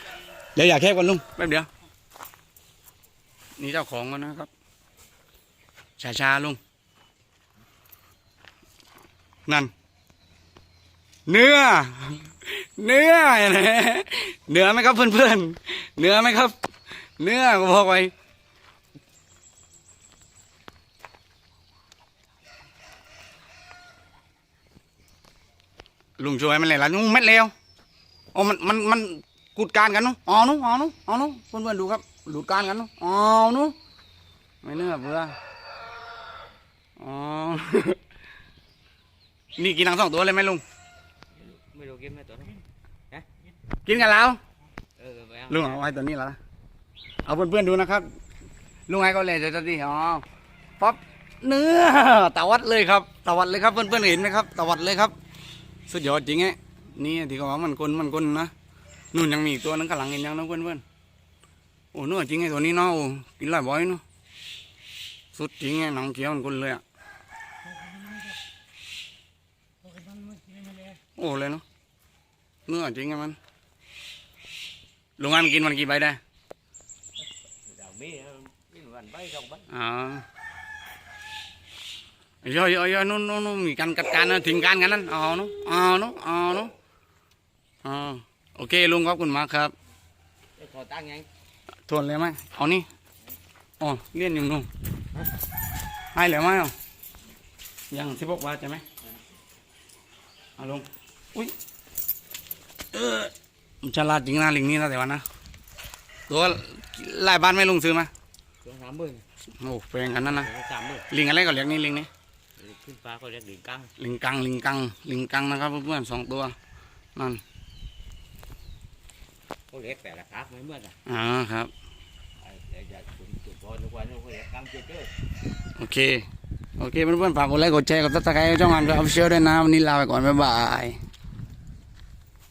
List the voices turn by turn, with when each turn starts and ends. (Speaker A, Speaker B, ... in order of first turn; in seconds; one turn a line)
Speaker A: 0.5-1.7
Speaker A: 3.6-4.5
Speaker A: 6.0-6.6
Speaker A: 11.3-16.6
Speaker A: 17.2-18.1
Speaker A: 26.2-27.5
Speaker A: 28.3-33.7
Speaker A: 34.6-35.3
Speaker A: 37.0-38.0
Speaker A: 39.6-40.6
Speaker B: 41.4-43.3
Speaker A: 43.8-44.4
Speaker B: 45.0-45.9
Speaker A: 45.5-46.4
Speaker A: 47.2-48.1
Speaker A: 48.9-50.2
Speaker A: 50.8-55.1
Speaker A: 55.9-58.5
Speaker A: 59.1-60.8
Speaker A: 61.9-64.0
Speaker A: 65.3-66.8
Speaker B: 70.0-70.9
Speaker A: 71.2-71.6
Speaker A: 72.7-73.4
Speaker A: 75.2-76.2
Speaker B: 77.7-79.7
Speaker A: 79.7-80.2
Speaker A: 82.4-86.7
Speaker A: 87.8-89.7
Speaker B: 90.6-91.3
Speaker A: 91.9-92.9
Speaker A: 93.8-94.7
Speaker A: 96.1-96.7
Speaker A: 97.9-98.8
Speaker A: 100.6-101.5
Speaker A: 102.9-105.2
Speaker A: 106.3-108.1
Speaker B: 108.6-109.2
Speaker A: 109.6-110.5
Speaker B: 110.2-111.1
Speaker A: 111.1-112.1
Speaker B: 112.6-113.9
Speaker A: 114.0-116.5
Speaker A: 117.1-117.4
Speaker B: 119.7-121.0
Speaker A: 121.0-121.7
Speaker B: 122.4-125.1
Speaker A: 125.8-126.2
Speaker A: 126.8-131.0